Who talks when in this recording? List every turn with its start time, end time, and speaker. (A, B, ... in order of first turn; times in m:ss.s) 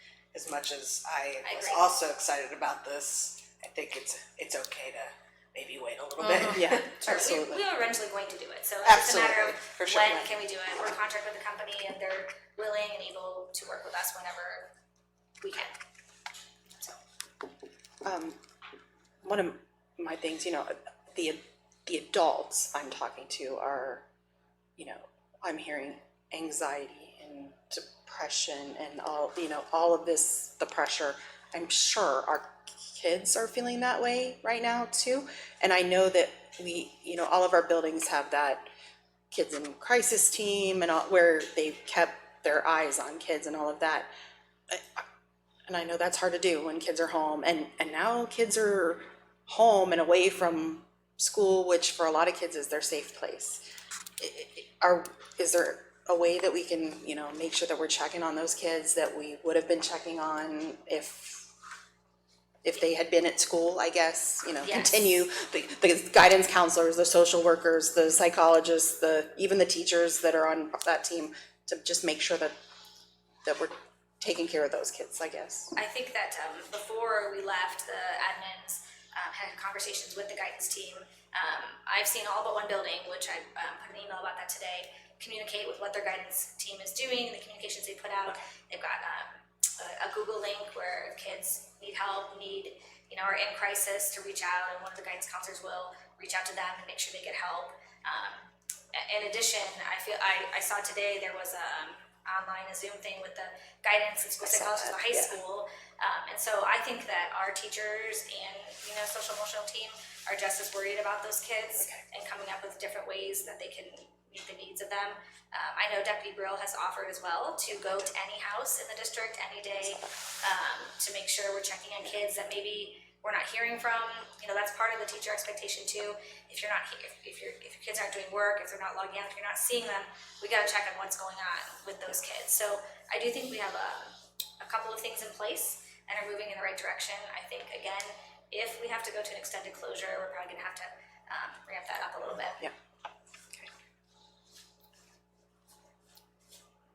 0:00.3-0:07.0 A
0:01.4-0:01.9 B
0:06.3-0:14.7 B
0:06.4-0:07.6 C
0:08.8-0:10.4 A
0:15.4-0:15.8 B
0:18.0-0:18.4 C
0:19.2-0:24.0 C
0:24.8-0:38.6 C
0:39.3-0:44.1 C
0:44.7-0:45.0 C
0:45.7-0:53.6 C
0:54.2-1:01.5 C
1:02.6-1:12.5 C
1:04.6-1:05.1 B
1:13.4-1:15.7 C
1:15.8-2:22.6 B
1:44.4-1:45.4 C